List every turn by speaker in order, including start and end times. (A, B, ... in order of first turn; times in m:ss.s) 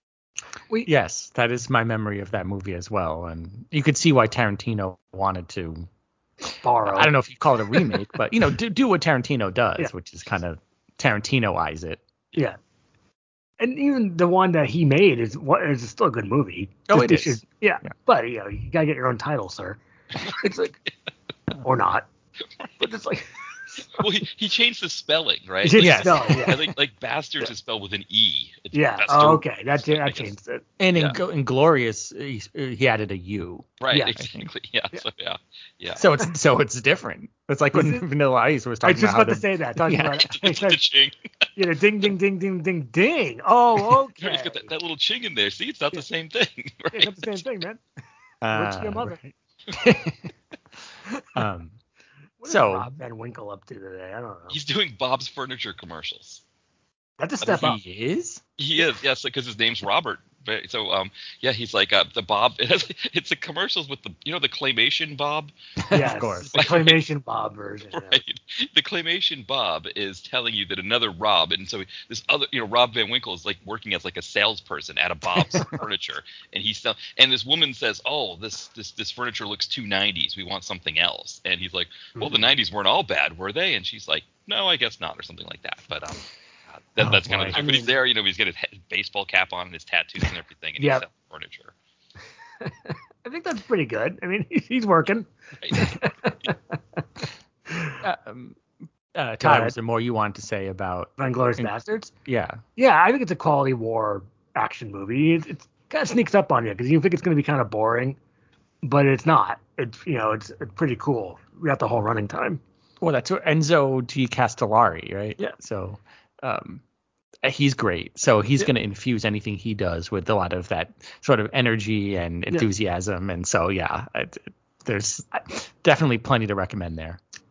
0:00.8-0:05.9 A
0:06.6-0:07.1 B
0:06.8-0:12.0 A
0:13.6-0:20.8 B
0:16.9-0:17.4 A
0:21.6-0:22.0 B
0:22.8-0:24.0 B
0:24.0-0:30.3 C
0:25.6-0:26.7 B
0:25.8-0:26.5 A
0:28.7-0:30.6 B
0:30.8-0:34.5 A
0:33.8-0:36.0 C
0:33.9-0:34.2 B
0:35.9-0:40.2 A
0:37.7-0:38.0 B
0:38.8-0:40.8 B
0:40.2-0:41.2 C
0:41.6-0:44.7 B
0:44.2-0:47.4 C
0:46.9-0:47.8 B
0:48.4-0:50.2 A
0:48.5-0:49.2 B
0:51.3-0:51.8 A
0:52.4-0:54.6 B
0:52.4-0:52.9 A
0:54.5-0:56.4 C
0:57.2-0:57.8 B
0:57.5-0:58.4 A
0:58.6-1:05.5 C
1:05.8-1:06.5 A
1:05.9-1:08.2 B
1:06.5-1:07.0 C
1:07.9-1:26.2 C
1:22.2-1:22.4 B
1:26.8-1:31.7 C
1:27.0-1:27.6 A
1:27.5-1:27.9 B
1:30.8-1:31.0 B
1:32.6-1:36.5 B
1:35.6-1:36.0 C
1:37.7-1:38.0 B
1:38.0-1:38.6 A
1:39.1-1:41.7 A
1:39.4-1:39.7 B
1:41.2-1:42.1 B
1:42.2-1:42.6 A
1:42.8-1:48.2 B
1:48.8-1:52.6 B
1:53.0-1:56.8 A
1:57.4-2:07.2 A